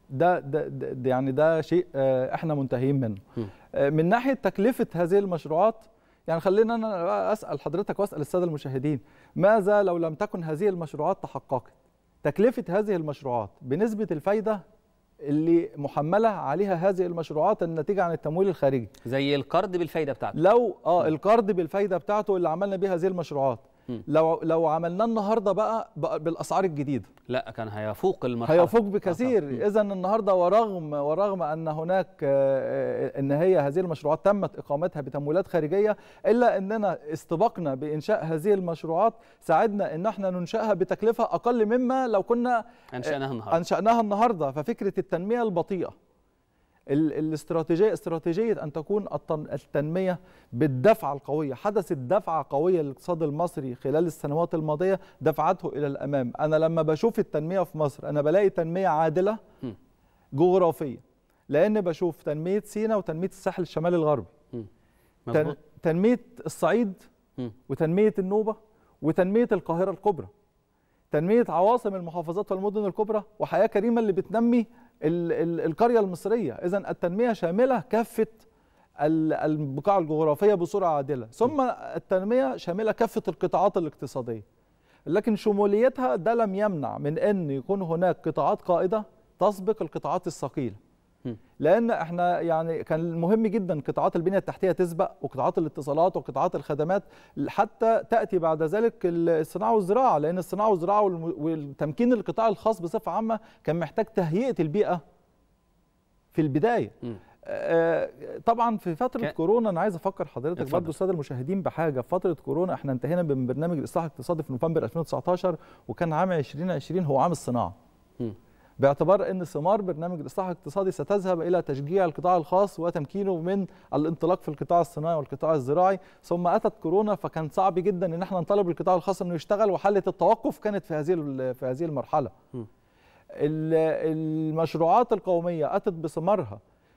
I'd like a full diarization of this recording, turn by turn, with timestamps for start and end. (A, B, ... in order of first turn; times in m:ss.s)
0:00.1-0:03.2 A
0:03.8-0:14.6 A
0:15.2-0:18.9 A
0:19.0-0:20.4 B
0:20.3-0:27.1 A
0:27.3-0:29.6 B
0:28.4-0:45.9 A
0:42.9-0:43.6 B
0:46.9-0:59.4 A
1:00.3-1:04.3 A
1:05.2-1:05.6 B
1:05.3-1:07.0 A
1:07.7-1:10.3 A
1:11.1-1:18.4 A
1:19.0-1:24.4 A
1:25.1-1:30.8 A
1:31.6-1:45.0 A
1:46.3-1:57.7 A
1:50.6-1:50.9 B
1:58.8-2:12.3 A
2:13.4-2:16.6 A